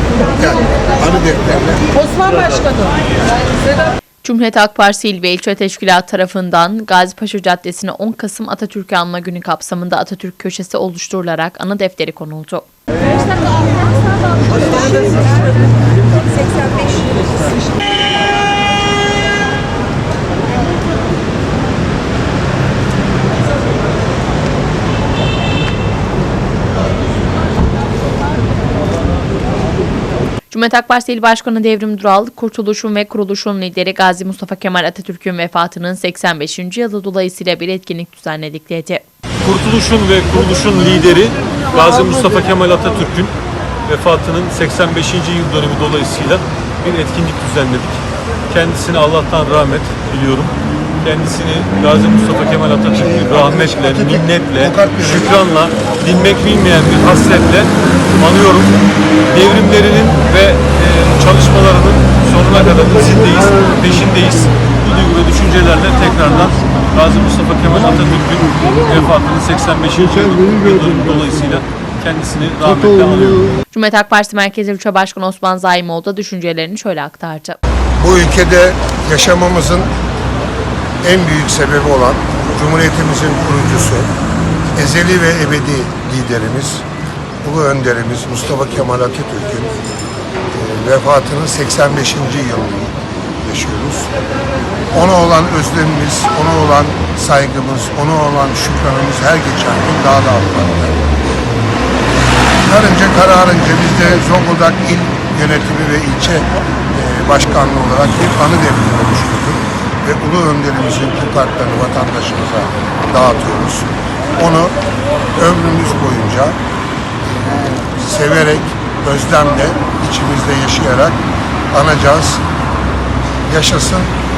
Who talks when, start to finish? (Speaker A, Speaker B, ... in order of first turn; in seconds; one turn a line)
Speaker A: 0.3-2.2
Speaker B: 4.2-12.7
Speaker B: 30.5-39.0
Speaker C: 39.4-43.3
Speaker C: 43.9-58.7
Speaker A: 52.9-55.4
Speaker C: 59.3-73.5
Speaker B: 73.7-77.6
Speaker A: 78.0-79.9
Speaker A: 81.0-84.1
Speaker A: 84.7-86.8
Speaker A: 87.4-89.8
Speaker A: 90.5-94.1
Speaker A: 94.9-101.1
Speaker A: 102.6-114.8
Speaker A: 115.3-116.6
Speaker A: 117.5-122.4
Speaker A: 123.5-124.1